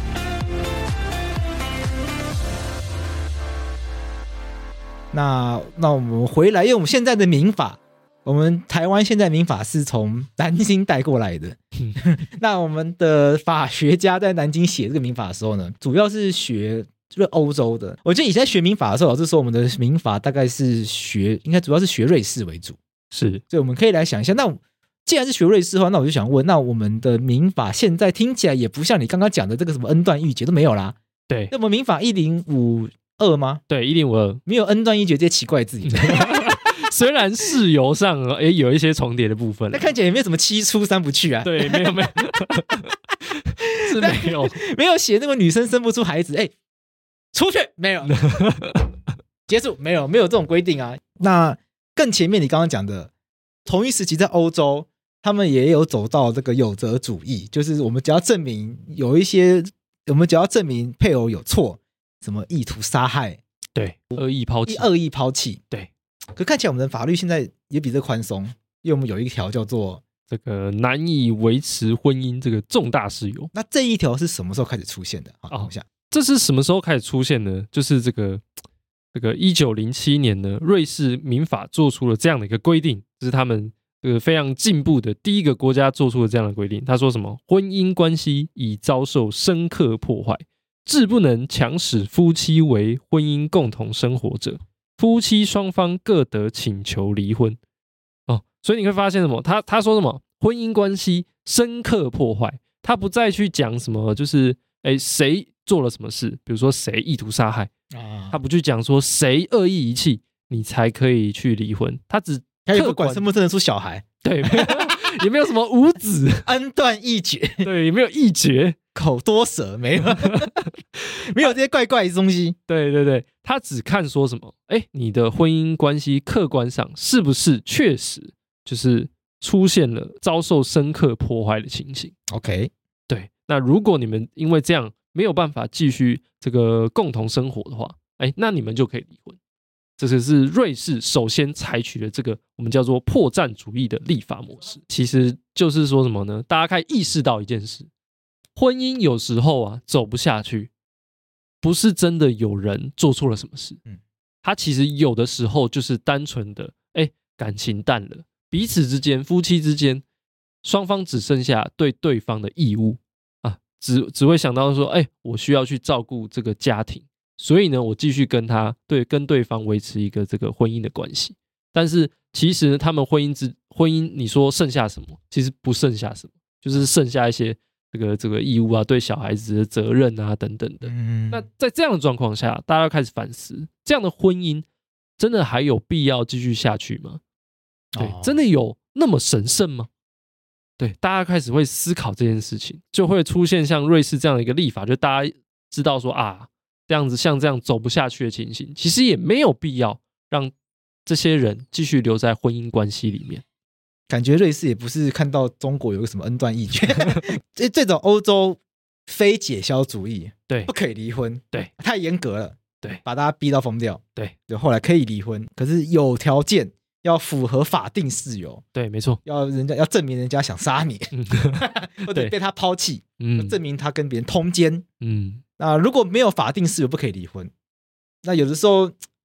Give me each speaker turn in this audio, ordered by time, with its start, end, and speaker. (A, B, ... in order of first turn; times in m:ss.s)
0:05.1-0:22.8 A
0:23.1-0:23.4 B
0:23.5-0:31.0 A
0:31.5-0:33.6 A
0:33.7-0:34.4 B
0:34.5-0:36.6 A
0:35.9-0:39.9 B
0:39.7-0:42.1 A
0:41.4-0:42.9 B
0:43.8-0:44.6 B
0:43.8-0:46.5 A
0:47.3-0:48.2 A
0:48.1-0:48.9 B
0:49.5-0:53.1 A
0:53.6-1:03.4 A
1:03.8-1:04.9 B
1:04.1-1:05.6 A
1:06.4-1:10.0 A
1:10.3-1:13.5 B
1:13.5-1:15.8 A
1:15.5-1:18.4 B
1:19.1-1:37.6 B
1:38.3-1:47.7 B
1:47.9-1:48.4 A
1:48.3-1:53.2 B
1:52.7-1:55.1 A
1:54.2-1:56.5 B
1:56.4-1:57.7 A
1:57.6-1:58.8 B
1:59.0-2:00.5 A
2:00.2-2:00.7 B
2:01.2-2:02.6 A
2:02.7-2:12.1 B
2:12.3-2:12.7 A
2:13.1-2:19.4 B
2:20.0-2:27.9 B
2:28.6-2:30.7 B
2:31.6-2:33.8 B
2:34.4-2:40.0 B
2:40.6-3:04.6 B
3:00.8-3:01.5 A
3:05.2-3:07.2 B
3:07.9-3:08.4 A
3:08.0-3:09.9 B
3:10.8-3:20.5 B
3:21.1-3:23.4 B
3:24.1-3:38.6 A
3:38.8-3:39.2 B
3:39.3-3:44.8 A
3:41.1-3:42.3 B
3:43.2-3:43.6 B
3:45.0-3:45.4 B
3:45.6-3:47.5 A
3:48.2-3:49.0 A